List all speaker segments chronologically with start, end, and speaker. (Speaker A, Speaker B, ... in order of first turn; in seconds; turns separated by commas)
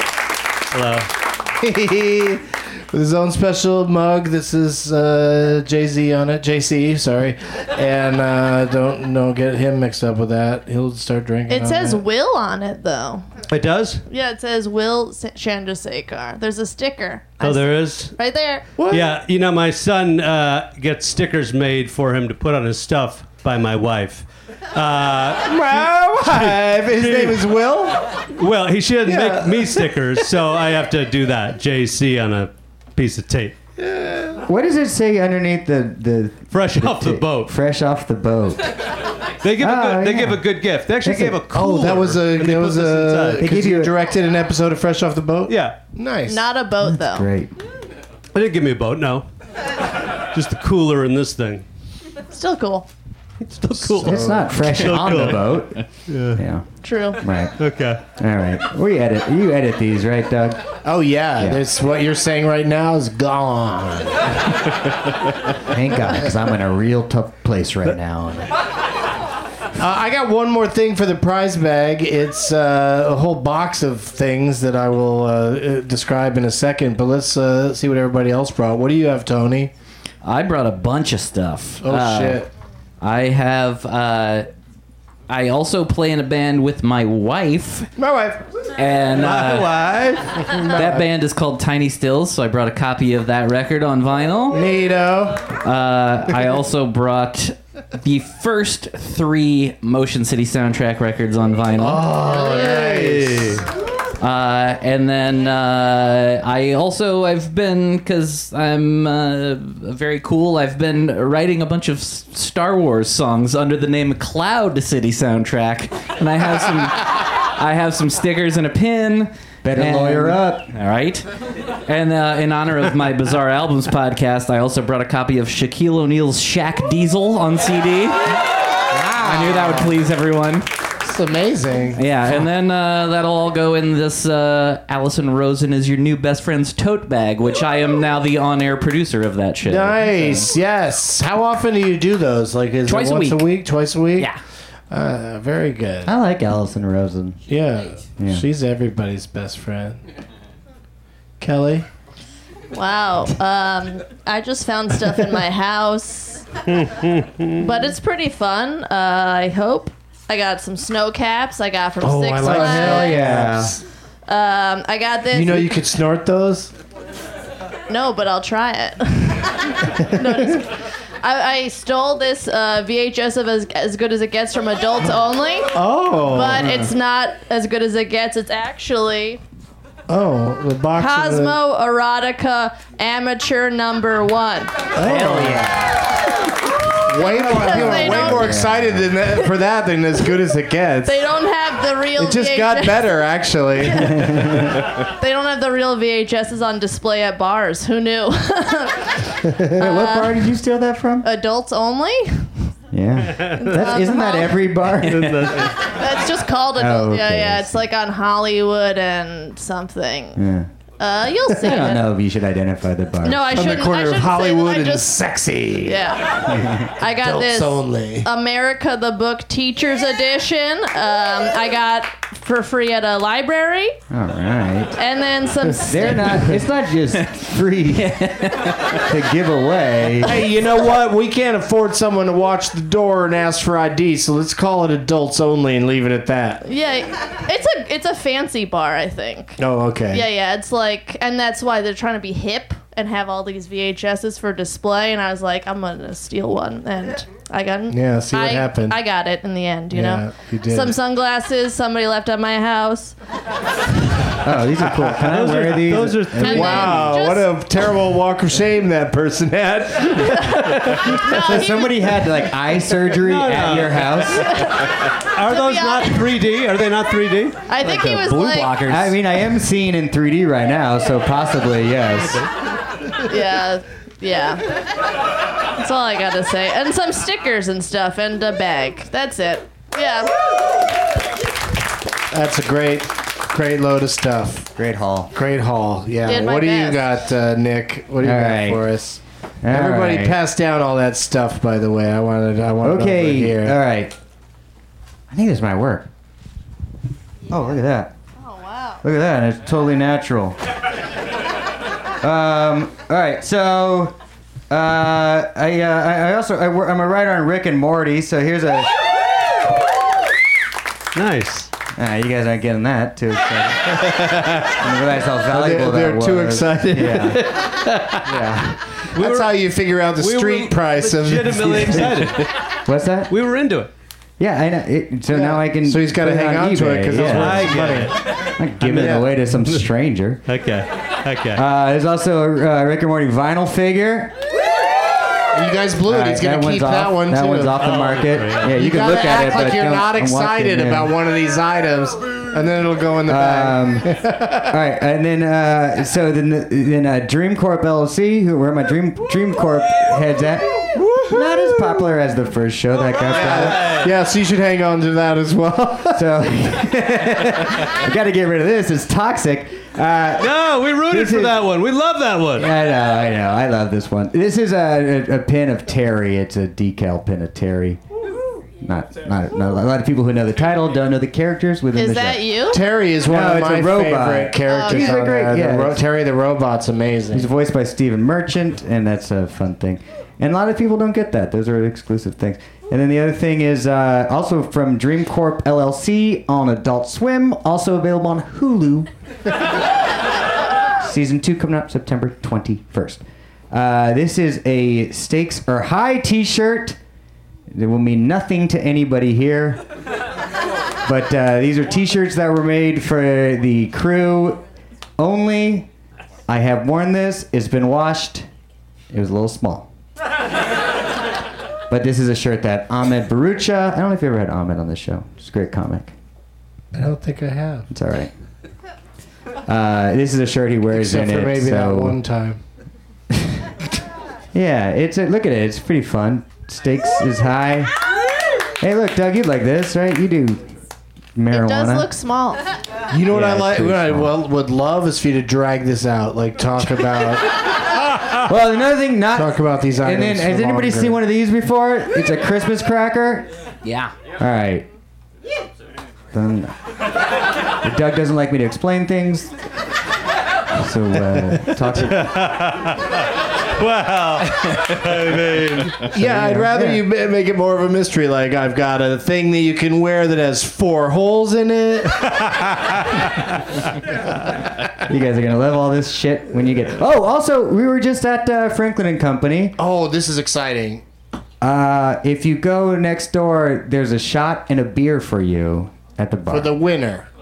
Speaker A: 0.7-1.1, Speaker B: 1.6-12.0, Speaker C: 11.5-13.3, Speaker A: 13.5-14.0, Speaker C: 14.1-18.6, Speaker A: 17.4-18.2, Speaker B: 18.8-19.1, Speaker A: 18.9-27.6, Speaker B: 25.4-28.1, Speaker A: 28.4-33.6, Speaker B: 29.1-30.3, Speaker B: 33.8-34.4, Speaker D: 34.5-38.7, Speaker A: 36.5-37.5, Speaker A: 39.4-43.5, Speaker D: 39.6-40.4, Speaker D: 41.0-41.4, Speaker B: 41.5-46.5, Speaker D: 43.4-43.9, Speaker A: 45.5-45.8, Speaker C: 46.3-47.3, Speaker D: 46.8-47.5, Speaker A: 48.3-49.3, Speaker A: 50.3-51.6, Speaker C: 52.3-52.9, Speaker A: 53.4-56.4, Speaker B: 53.9-54.5, Speaker D: 54.0-56.6, Speaker C: 56.8-57.2, Speaker D: 57.2-57.5, Speaker A: 57.6-58.0, Speaker D: 58.1-60.7, Speaker B: 60.8-64.4, Speaker D: 65.7-68.5, Speaker B: 69.8-79.7, Speaker E: 80.2-82.4, Speaker B: 81.8-82.5, Speaker E: 83.0-84.5, Speaker E: 85.3-87.9, Speaker B: 88.0-88.4, Speaker E: 88.8-89.8, Speaker A: 89.2-90.5, Speaker B: 90.5-91.1, Speaker E: 90.6-94.6, Speaker B: 94.5-95.5, Speaker E: 95.6-102.0, Speaker B: 101.8-103.6, Speaker A: 102.3-103.6, Speaker E: 104.2-121.2, Speaker D: 119.6-120.7, Speaker E: 121.9-128.4, Speaker E: 128.9-130.7, Speaker B: 129.0-129.9, Speaker B: 131.0-132.0, Speaker E: 132.0-140.1, Speaker B: 139.7-144.3, Speaker E: 142.9-143.5, Speaker B: 144.9-146.1, Speaker D: 146.0-147.4, Speaker B: 147.5-150.0, Speaker D: 148.2-148.4, Speaker B: 151.4-151.9, Speaker C: 152.7-156.5, Speaker A: 156.7-157.6, Speaker C: 157.6-163.2, Speaker B: 162.0-163.8, Speaker D: 162.4-163.8, Speaker C: 164.3-165.7, Speaker B: 165.3-166.7, Speaker C: 167.9-175.7, Speaker B: 175.7-176.9, Speaker C: 176.3-179.4, Speaker B: 180.1-181.6, Speaker C: 181.0-184.8, Speaker B: 185.0-185.7, Speaker E: 185.0-185.8, Speaker B: 187.1-191.2, Speaker D: 187.2-189.1, Speaker C: 187.3-188.6, Speaker C: 191.1-193.2, Speaker B: 192.2-194.8, Speaker C: 193.8-199.1, Speaker B: 199.5-199.8, Speaker C: 199.8-200.4, Speaker D: 199.8-201.3, Speaker C: 201.2-202.5, Speaker D: 202.9-205.5, Speaker C: 203.6-204.6, Speaker A: 205.1-205.8, Speaker C: 205.9-210.4, Speaker D: 206.8-207.8, Speaker D: 210.4-210.7, Speaker C: 211.0-212.1, Speaker D: 211.5-213.7, Speaker C: 213.2-215.1, Speaker B: 213.5-216.0, Speaker C: 215.8-224.0, Speaker B: 217.0-218.3, Speaker D: 224.1-225.0, Speaker C: 225.0-226.5, Speaker D: 225.8-228.3, Speaker E: 227.9-229.0, Speaker D: 229.1-230.5, Speaker B: 230.2-236.6, Speaker C: 236.6-239.6, Speaker B: 239.6-240.3, Speaker C: 240.1-253.2, Speaker B: 247.9-249.0, Speaker B: 249.9-251.0, Speaker D: 254.4-257.1, Speaker A: 255.2-256.9, Speaker C: 256.4-257.6, Speaker B: 256.4-261.6, Speaker C: 260.3-262.1, Speaker D: 261.3-264.6, Speaker A: 263.2-264.3, Speaker C: 264.4-266.4, Speaker A: 265.2-267.6, Speaker C: 267.7-268.7, Speaker E: 267.8-269.2, Speaker D: 268.9-272.5, Speaker C: 273.2-274.6, Speaker C: 275.8-280.3, Speaker B: 282.3-284.7, Speaker D: 284.8-285.3, Speaker B: 285.3-293.8, Speaker C: 286.2-287.0, Speaker D: 288.2-288.8, Speaker D: 289.6-290.4, Speaker D: 292.8-294.1, Speaker D: 295.3-296.1, Speaker D: 297.5-298.1, Speaker C: 298.4-299.0, Speaker D: 299.0-300.6, Speaker D: 302.2-304.2, Speaker D: 304.7-308.9, Speaker A: 311.1-311.7, Speaker D: 312.0-317.6, Speaker B: 315.5-318.6, Speaker D: 318.2-318.7, Speaker A: 319.1-319.6, Speaker B: 319.1-322.1, Speaker A: 320.2-322.5, Speaker D: 322.9-323.3, Speaker A: 323.3-323.9, Speaker D: 324.4-330.4, Speaker B: 325.3-328.2, Speaker A: 327.2-328.2, Speaker B: 328.8-329.3, Speaker A: 330.5-331.6, Speaker D: 331.6-334.4, Speaker B: 335.5-337.8, Speaker D: 336.1-341.1, Speaker A: 337.8-338.7, Speaker B: 338.7-344.7, Speaker D: 343.3-344.1, Speaker D: 344.7-353.8, Speaker B: 351.0-351.9, Speaker B: 353.3-356.2, Speaker A: 353.3-354.1, Speaker D: 356.1-360.5, Speaker A: 360.4-362.7, Speaker D: 361.1-361.6, Speaker D: 362.6-368.0, Speaker D: 368.8-372.5, Speaker C: 371.9-372.8, Speaker B: 372.7-377.5, Speaker D: 373.2-376.0, Speaker C: 374.7-375.2, Speaker D: 377.3-389.1, Speaker D: 391.0-397.0, Speaker D: 397.7-399.8, Speaker D: 401.1-404.6, Speaker D: 405.2-405.9, Speaker D: 406.5-408.5, Speaker D: 409.1-409.9, Speaker D: 411.9-416.1, Speaker B: 416.9-417.9, Speaker D: 417.9-418.3, Speaker D: 419.7-422.2, Speaker B: 420.9-422.6, Speaker D: 423.3-423.7, Speaker D: 424.5-427.9, Speaker D: 428.8-430.7, Speaker D: 431.4-432.1, Speaker C: 431.5-432.6, Speaker B: 433.1-437.6, Speaker D: 433.3-434.3, Speaker D: 438.4-443.5, Speaker B: 439.3-441.2, Speaker E: 443.8-444.1, Speaker D: 444.4-444.9, Speaker D: 446.3-446.8, Speaker D: 447.8-449.5, Speaker D: 450.7-452.3, Speaker A: 452.0-453.2, Speaker A: 453.8-456.1, Speaker B: 456.1-463.2, Speaker D: 456.1-457.0, Speaker D: 465.1-469.8, Speaker B: 469.8-471.0, Speaker D: 471.6-476.8, Speaker B: 476.5-477.3